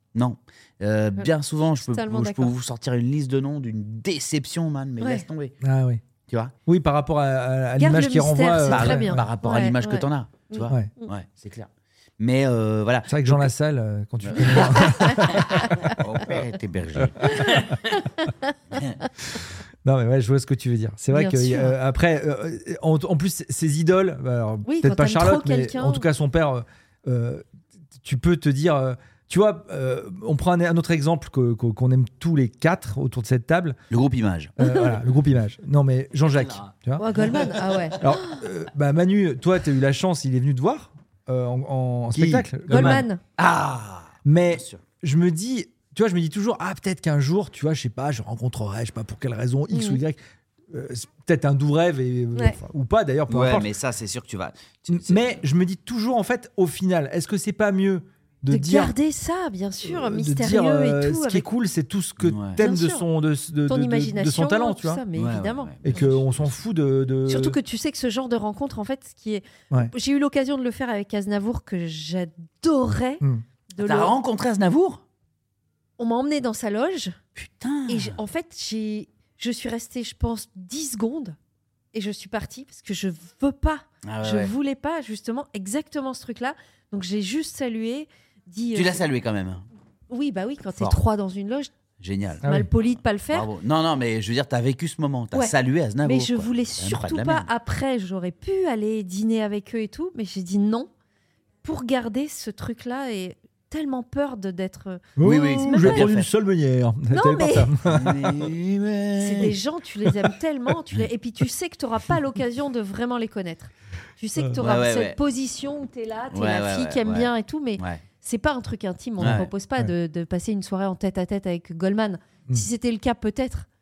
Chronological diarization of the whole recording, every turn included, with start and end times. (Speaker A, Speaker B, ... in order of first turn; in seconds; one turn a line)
Speaker A: 0.1-5.6
Speaker B: 1.2-2.5
Speaker B: 5.0-5.2
Speaker C: 5.6-6.0
Speaker A: 6.3-6.5
Speaker C: 6.7-9.2
Speaker B: 7.8-11.1
Speaker A: 8.7-13.5
Speaker C: 13.1-15.9
Speaker A: 14.2-17.7
Speaker C: 17.0-17.8
Speaker B: 17.6-18.5
Speaker A: 18.7-19.0
Speaker C: 19.4-27.4
Speaker B: 21.1-21.8
Speaker B: 24.6-26.1
Speaker C: 28.0-33.8
Speaker A: 33.9-34.6
Speaker C: 34.6-37.5
Speaker B: 34.6-35.0
Speaker B: 37.0-38.4
Speaker A: 37.2-37.5
Speaker C: 38.0-43.1
Speaker A: 42.1-44.8
Speaker B: 42.7-43.2
Speaker C: 44.2-50.2
Speaker B: 49.7-50.0
Speaker C: 50.7-53.7
Speaker A: 53.3-55.4
Speaker C: 54.9-59.0
Speaker B: 58.5-61.5
Speaker C: 59.8-65.0
Speaker A: 62.2-62.6
Speaker B: 62.6-63.1
Speaker B: 63.7-66.0
Speaker A: 65.1-66.6
Speaker C: 65.8-67.6
Speaker B: 67.3-74.1
Speaker A: 73.8-75.0
Speaker B: 76.0-77.2
Speaker A: 77.4-78.2
Speaker B: 77.9-81.4
Speaker B: 81.9-89.0
Speaker A: 84.0-84.5
Speaker A: 88.7-89.7
Speaker B: 90.1-91.7
Speaker A: 92.0-92.4
Speaker C: 92.4-92.7
Speaker B: 92.4-93.5
Speaker A: 93.3-97.5
Speaker B: 95.3-100.9
Speaker B: 101.6-106.0
Speaker C: 105.2-108.3
Speaker A: 105.2-106.3
Speaker B: 107.1-107.7
Speaker A: 107.8-109.6
Speaker B: 109.2-123.7
Speaker A: 114.6-115.2
Speaker A: 116.3-118.0
Speaker A: 119.2-119.5
Speaker C: 119.2-119.9